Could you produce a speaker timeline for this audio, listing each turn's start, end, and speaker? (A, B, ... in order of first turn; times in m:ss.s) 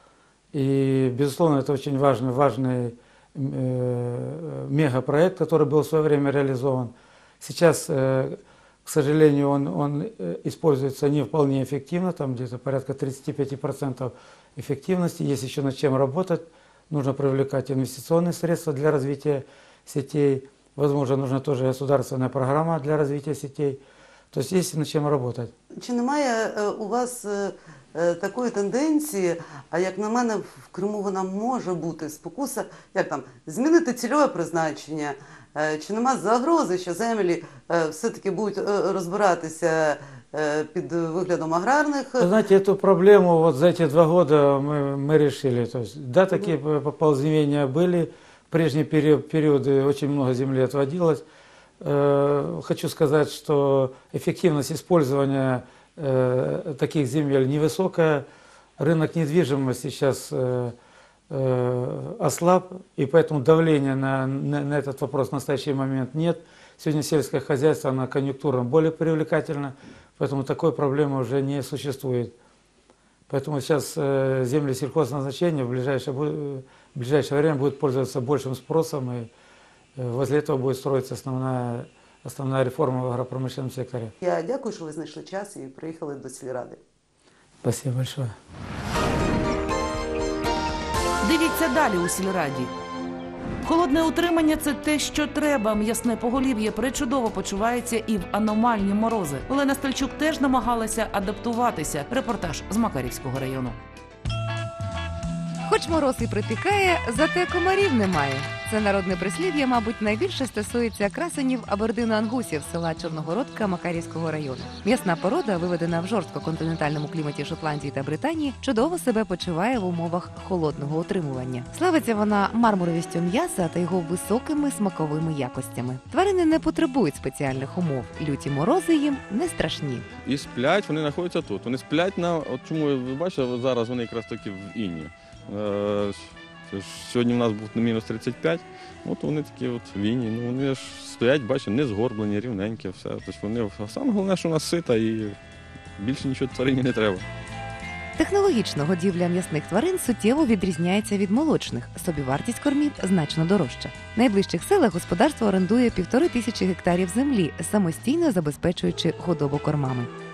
0:00.5-0:23.8 A
0:24.3-0:25.5 A
0:25.7-0:42.3 B
0:42.2-0:51.2 A
0:51.8-0:58.2 A
0:58.8-1:00.7 A
1:01.3-1:12.3 A
1:13.3-1:19.3 A
1:20.0-1:24.1 A
1:24.2-1:26.8 B
1:27.6-1:28.3 A
1:31.2-1:32.7 C
1:33.6-1:43.8 C
1:45.6-2:10.0 D
2:10.2-2:25.4 E
2:26.0-2:27.2 E
2:28.2-2:40.1 D